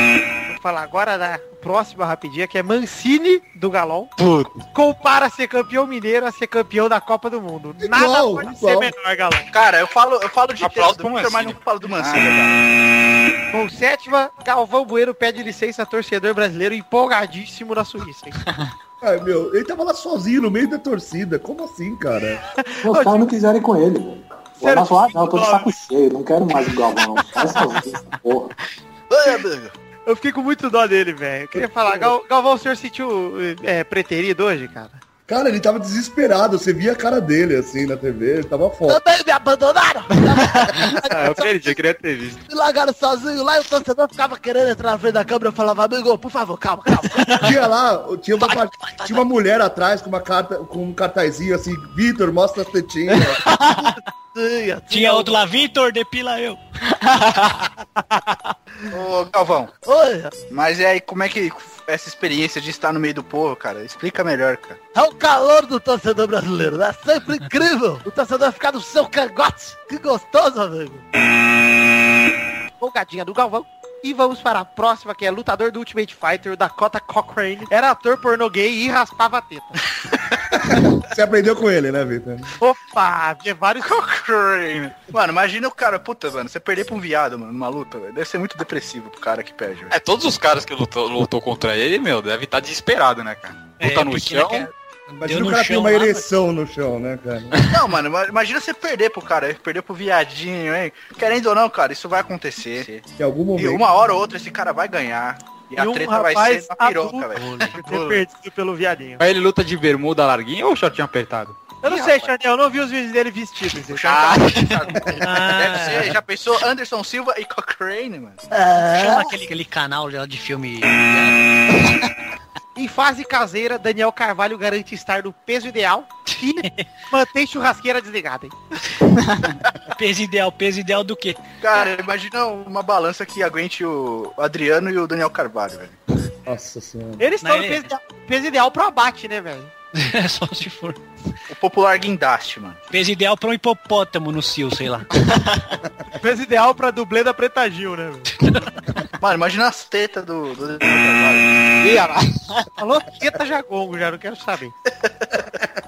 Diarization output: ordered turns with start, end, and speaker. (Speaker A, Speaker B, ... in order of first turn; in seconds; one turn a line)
Speaker A: 0.5-4.1
Speaker B: 4.2-4.6
Speaker A: 4.7-9.5
Speaker C: 7.8-8.9
Speaker D: 9.5-12.7
Speaker B: 10.6-12.3
Speaker A: 13.5-18.4
Speaker C: 19.0-22.4
Speaker A: 22.6-23.3
Speaker E: 22.8-28.5
Speaker A: 24.6-25.7
Speaker D: 29.1-29.7
Speaker A: 30.1-35.0
Speaker C: 31.6-32.1
Speaker C: 35.3-39.0
Speaker F: 38.9-41.8
Speaker B: 40.3-42.4
Speaker F: 42.5-47.5
Speaker C: 47.4-53.4
Speaker F: 53.4-55.6
Speaker G: 54.9-56.6
Speaker B: 57.0-57.3
Speaker D: 58.9-59.7
Speaker F: 59.8-60.3
Speaker D: 60.5-64.8
Speaker F: 64.9-71.0
Speaker A: 72.8-79.8
Speaker C: 80.5-82.5
Speaker A: 82.6-84.0
Speaker D: 83.8-89.9
Speaker B: 89.9-94.7
Speaker G: 93.8-96.2
Speaker C: 95.2-97.6
Speaker D: 97.7-107.6
Speaker C: 103.2-103.9
Speaker A: 105.8-109.2
Speaker G: 107.4-107.7
Speaker B: 107.6-108.2
Speaker B: 109.2-111.6
Speaker A: 111.8-114.4
Speaker D: 111.8-112.3
Speaker D: 113.9-118.4
Speaker B: 114.3-114.7
Speaker G: 115.2-116.1
Speaker F: 118.5-119.3
Speaker G: 119.0-121.3
Speaker A: 122.8-128.5
Speaker B: 129.2-129.4
Speaker G: 129.9-131.4
Speaker D: 131.6-136.0
Speaker C: 136.4-137.2
Speaker A: 137.2-139.7
Speaker G: 137.4-137.9
Speaker G: 139.9-141.0
Speaker D: 141.5-142.8
Speaker G: 142.9-145.1
Speaker B: 145.2-145.5
Speaker A: 146.2-148.3
Speaker D: 149.2-151.6
Speaker B: 151.8-152.7
Speaker A: 152.8-154.7